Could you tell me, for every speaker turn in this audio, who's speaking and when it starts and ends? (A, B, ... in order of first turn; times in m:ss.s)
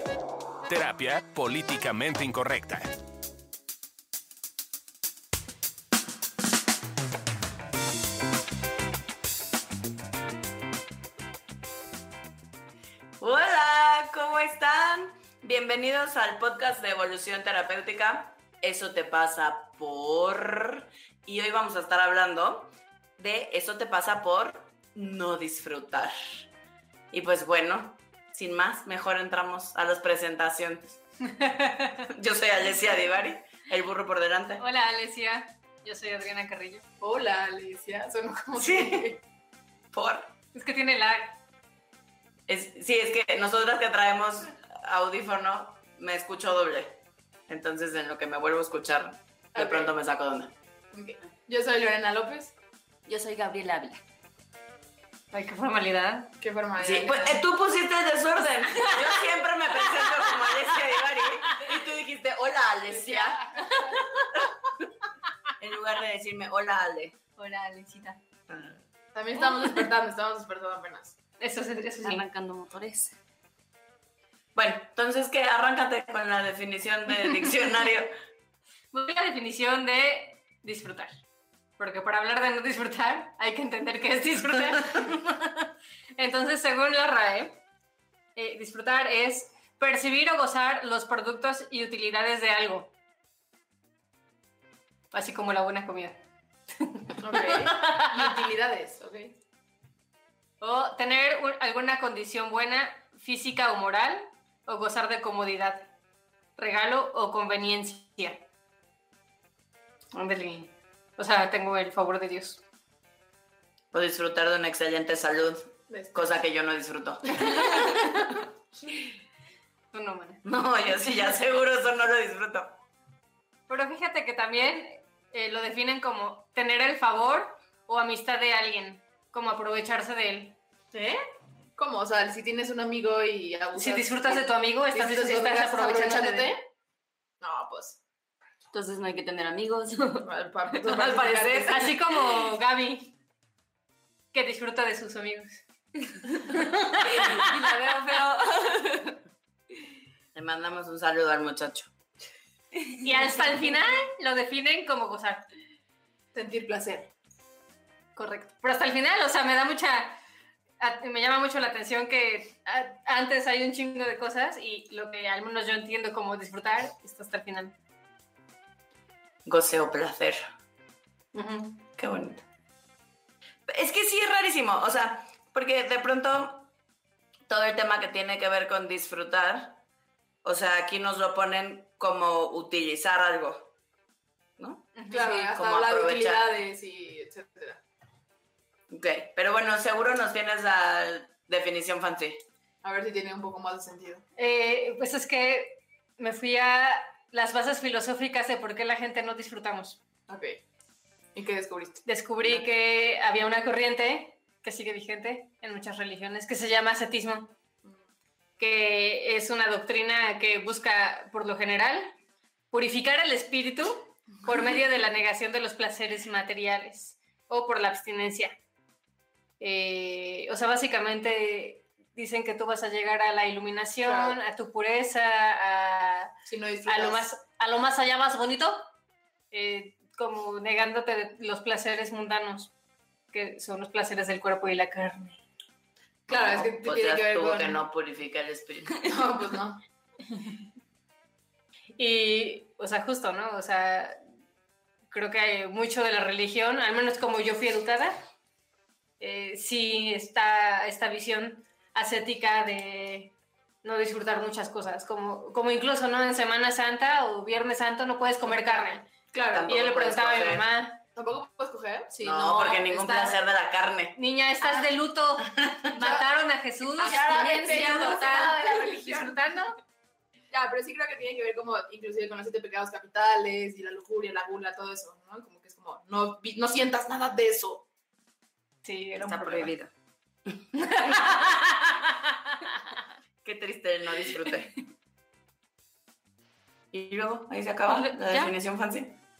0:00.6-0:02.9 A
0:13.2-0:26.1 B
0:27.1-0:31.0 B
0:31.2-0:32.1 C
0:32.1-0:34.6 B
0:34.6-0:36.8 C
0:37.0-0:39.2 D
0:38.6-0:39.2 B
0:39.9-0:40.3 B
0:40.5-0:41.4 C
0:42.5-0:47.0 B
0:47.5-0:50.5 B
0:49.5-0:49.9 D
0:50.9-0:52.5 D
0:53.0-0:54.0 E
0:55.3-0:56.3 C
0:56.4-0:57.4 D
0:56.8-1:03.4 B
1:02.9-1:04.1 D
1:05.6-1:07.2 B
1:07.4-1:08.1 E
1:07.4-1:08.1 C
1:08.5-1:08.8 B
1:09.1-1:11.2 D
1:11.4-1:12.2 C
1:12.0-1:13.2 E
1:14.5-1:18.1 B
1:18.9-1:21.1 C
1:21.8-1:27.6 C
1:28.4-1:32.9 C
1:35.1-1:36.2 C
1:36.8-1:38.3 C
1:37.2-1:39.3 D
1:40.6-1:45.9 C
1:46.6-1:48.4 C
1:50.1-1:52.6 C
1:53.9-1:57.8 B
1:55.9-1:56.3 D
1:57.6-1:58.3 C
1:59.9-2:00.4 C
2:00.4-2:02.8 B
2:03.7-2:10.6 C
2:10.9-2:11.2 D
2:11.8-2:16.7 D
2:13.8-2:16.5 C
2:17.4-2:18.0 D
2:18.7-2:21.8 E
2:20.2-2:21.9 D
2:20.9-2:23.2 C
2:24.3-2:27.5 C
2:27.0-2:29.2 E
2:30.3-2:31.9 B
2:32.8-2:33.4 E
2:33.0-2:35.5 C
2:36.3-2:37.1 D
2:38.2-2:40.2 C
2:40.8-2:47.7 C
2:49.4-2:50.4 B
2:51.3-2:51.8 C
2:52.0-2:52.4 B
2:53.7-2:56.7 B
2:57.5-2:59.8 B
3:00.4-3:03.7 B
3:04.6-3:06.4 B
3:05.0-3:05.4 C
3:05.1-3:07.8 D
3:08.9-3:12.4 B
3:12.8-3:14.2 D
3:14.4-3:20.0 C
3:20.3-3:20.6 D
3:21.3-3:22.6 D
3:22.0-3:27.6 C
3:28.6-3:32.2 C
3:32.7-3:38.6 C
3:39.6-3:48.9 C
3:44.0-3:44.4 D
3:46.4-3:47.3 D
3:49.5-3:52.7 C
3:53.3-3:55.4 C
3:56.3-3:57.8 D
3:56.3-3:59.1 B
3:59.0-3:59.8 D
4:02.0-4:04.2 C
4:05.1-4:08.3 C
4:09.2-4:21.0 C
4:18.4-4:19.6 D
4:19.5-4:20.6 B
4:21.1-4:22.3 D
4:22.2-4:24.2 B
4:22.2-4:22.9 E
4:22.8-4:23.3 C
4:24.2-4:29.7 C
4:25.5-4:25.9 B
4:25.9-4:26.3 D
4:26.9-4:29.7 D
4:27.0-4:28.3 E
4:30.5-4:37.8 D
4:38.8-4:39.7 C
4:39.2-4:39.9 E
4:40.8-4:43.0 C
4:43.4-4:44.7 B
4:46.9-4:49.1 B
4:47.9-4:48.5 E